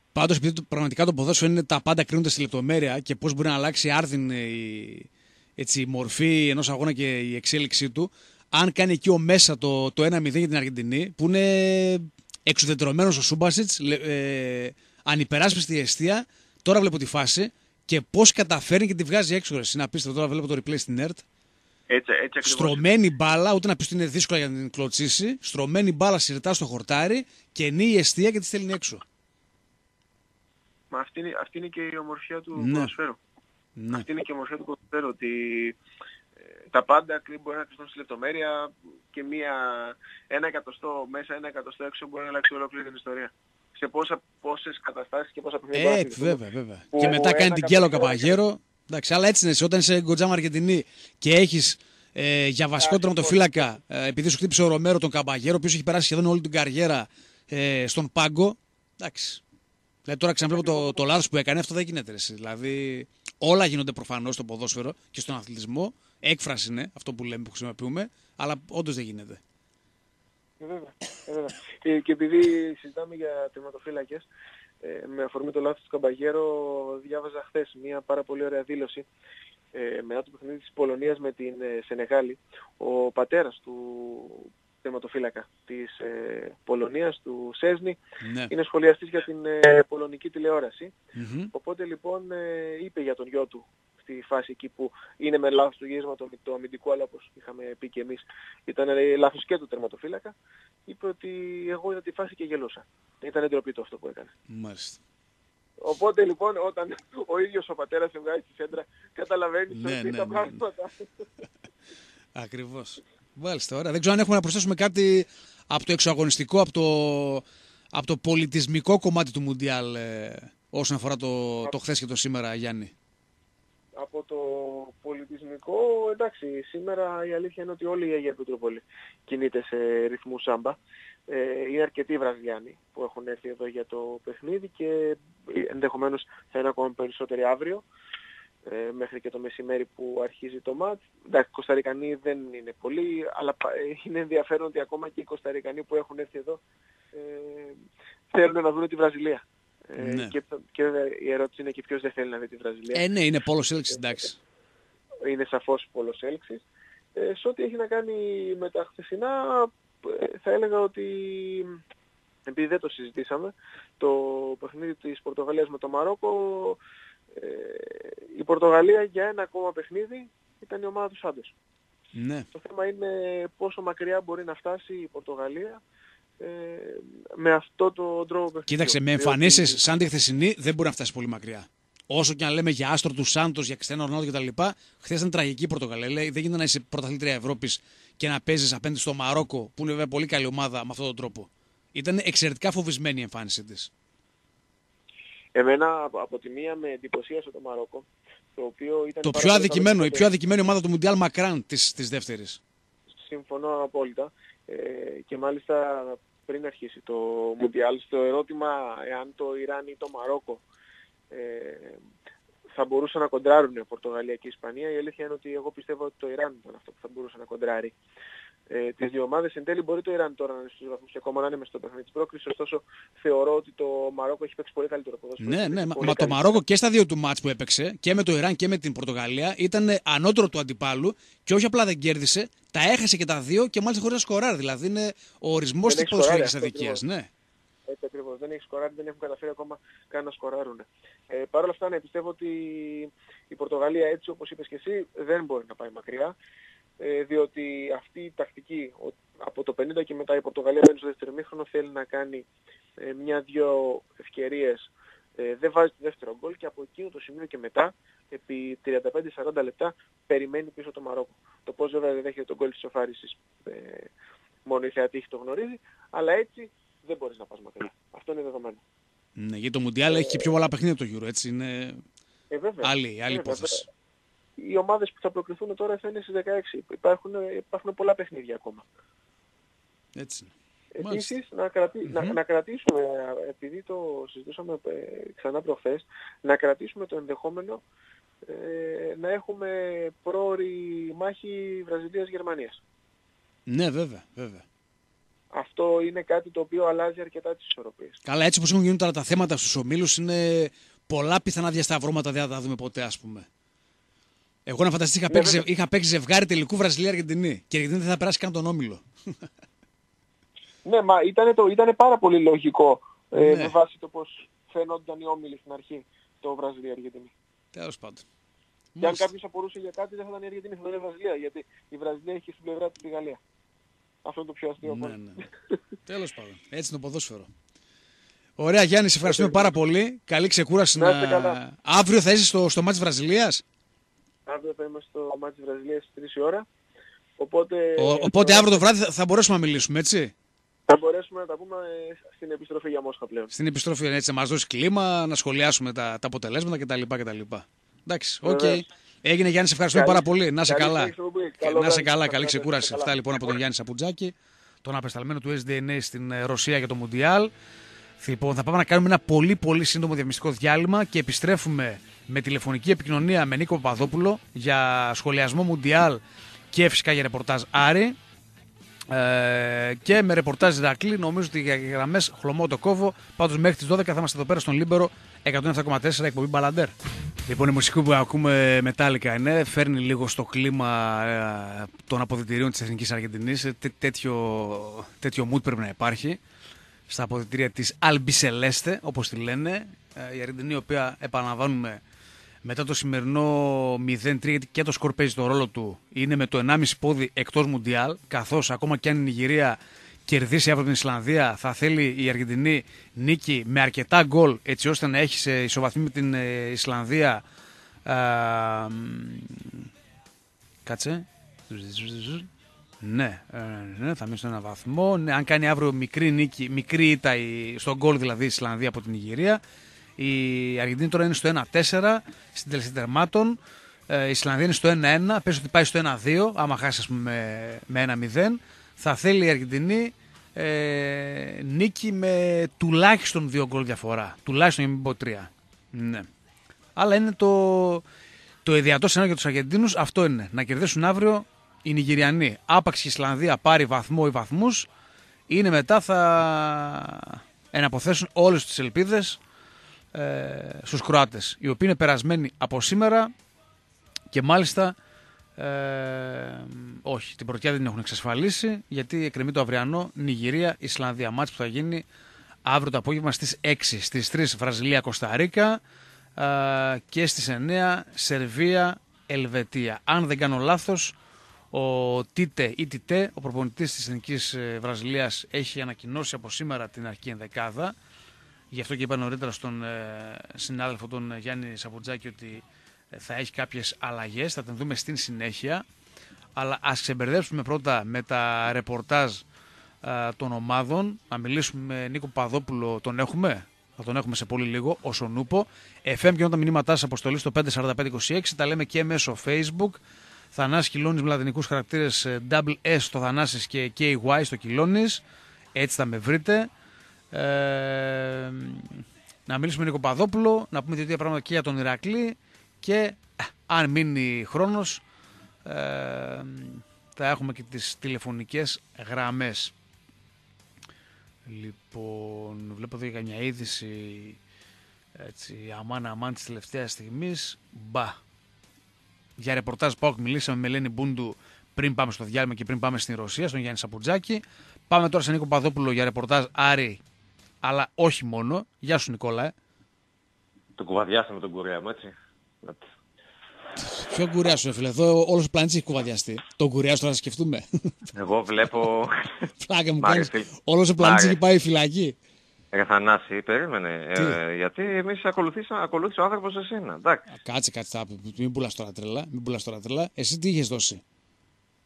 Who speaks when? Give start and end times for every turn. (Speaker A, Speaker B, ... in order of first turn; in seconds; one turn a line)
Speaker A: 0.1-21.2
Speaker B: 21.9-22.8
Speaker A: 22.4-29.0
Speaker B: 30.9-33.2
Speaker A: 32.5-32.9
Speaker A: 33.8-34.0
Speaker B: 33.9-35.8
Speaker B: 36.7-46.4
Speaker A: 45.7-59.4
Speaker B: 46.9-48.3
Speaker B: 52.8-53.5
Speaker A: 60.0-69.4
Speaker B: 60.5-61.0
Speaker B: 70.6-74.2
Speaker B: 74.8-79.0
Speaker B: 79.7-88.0
Speaker A: 88.2-88.5
Speaker B: 88.5-90.9
Speaker A: 91.1-91.5
Speaker B: 91.5-100.3
Speaker B: 100.9-104.3
Speaker A: 104.5-105.0
Speaker B: 105.8-111.1
Speaker A: 109.7-110.6
Speaker A: 112.3-122.9
Speaker B: 124.0-130.8
Speaker B: 131.3-137.8
Speaker B: 138.6-146.6
Speaker B: 147.1-147.8
Speaker B: 148.3-153.0
Speaker A: 150.0-150.3
Speaker A: 152.9-154.4
Speaker B: 155.2-156.6
Speaker B: 157.2-161.8
Speaker B: 162.4-166.8
Speaker B: 167.3-171.5
Speaker A: 172.1-172.5
Speaker B: 172.5-175.8
Speaker B: 176.4-179.8
Speaker A: 178.7-193.9
Speaker B: 195.5-200.2
Speaker A: 199.2-202.6
Speaker B: 203.2-210.6
Speaker B: 211.3-212.0
Speaker B: 212.7-217.9
Speaker B: 218.7-226.6
Speaker A: 225.4-237.3
Speaker B: 235.8-237.0
Speaker B: 237.9-246.3
Speaker B: 247.0-252.4
Speaker B: 253.0-264.1
Speaker B: 264.6-268.8
Speaker A: 269.4-272.0
Speaker B: 272.5-273.8
Speaker A: 272.8-273.9
Speaker B: 274.6-278.8
Speaker A: 280.1-281.3
Speaker B: 280.9-287.8
Speaker A: 282.1-282.4
Speaker B: 288.5-292.8
Speaker A: 293.7-294.6
Speaker B: 295.5-298.2
Speaker A: 298.2-303.5
Speaker A: 304.6-309.0
Speaker B: 305.3-305.6
Speaker B: 310.8-317.3
Speaker A: 313.4-313.8
Speaker A: 317.7-318.2
Speaker A: 318.9-319.3
Speaker B: 319.0-323.4
Speaker B: 324.2-325.2
Speaker A: 324.8-325.4
Speaker A: 326.1-327.5
Speaker A: 328.6-333.6
Speaker B: 329.2-329.7
Speaker B: 330.9-331.6
Speaker B: 334.4-336.6
Speaker B: 337.4-338.8
Speaker A: 337.9-340.3
Speaker B: 340.9-343.5
Speaker A: 343.5-357.5
Speaker B: 348.4-348.8
Speaker B: 349.9-353.5
Speaker A: 358.2-366.2
Speaker A: 366.7-368.1
Speaker A: 369.1-376.9
Speaker A: 377.5-386.4
Speaker A: 387.1-392.0
Speaker A: 392.6-407.4
Speaker A: 408.1-409.9
Speaker A: 410.8-412.5
Speaker A: 413.0-419.6
Speaker A: 420.2-423.6
Speaker A: 424.1-436.3
Speaker A: 436.9-438.0
Speaker A: 438.6-444.9
Speaker A: 445.5-449.4
Speaker A: 450.1-453.3
Speaker A: 454.3-454.9
Speaker A: 455.6-462.0
Speaker A: 462.6-465.8
Speaker A: 466.4-471.1
Speaker A: 471.7-477.9
Speaker A: 478.7-485.8
Speaker A: 486.6-489.4
Speaker A: 490.0-500.0
Speaker A: 500.5-505.2
Speaker A: 505.7-506.7
Speaker A: 507.3-508.9
Speaker A: 509.5-515.0
Speaker A: 515.6-519.7
Speaker A: 521.5-524.4
Speaker A: 525.2-528.2
Speaker A: 529.4-537.0
Speaker A: 537.6-539.5
Speaker C: 540.8-542.8
Speaker A: 543.8-547.9
Speaker C: 548.1-549.5
Speaker A: 549.6-552.1
Speaker C: 550.0-551.4
Speaker C: 552.7-557.3
Speaker A: 557.3-561.0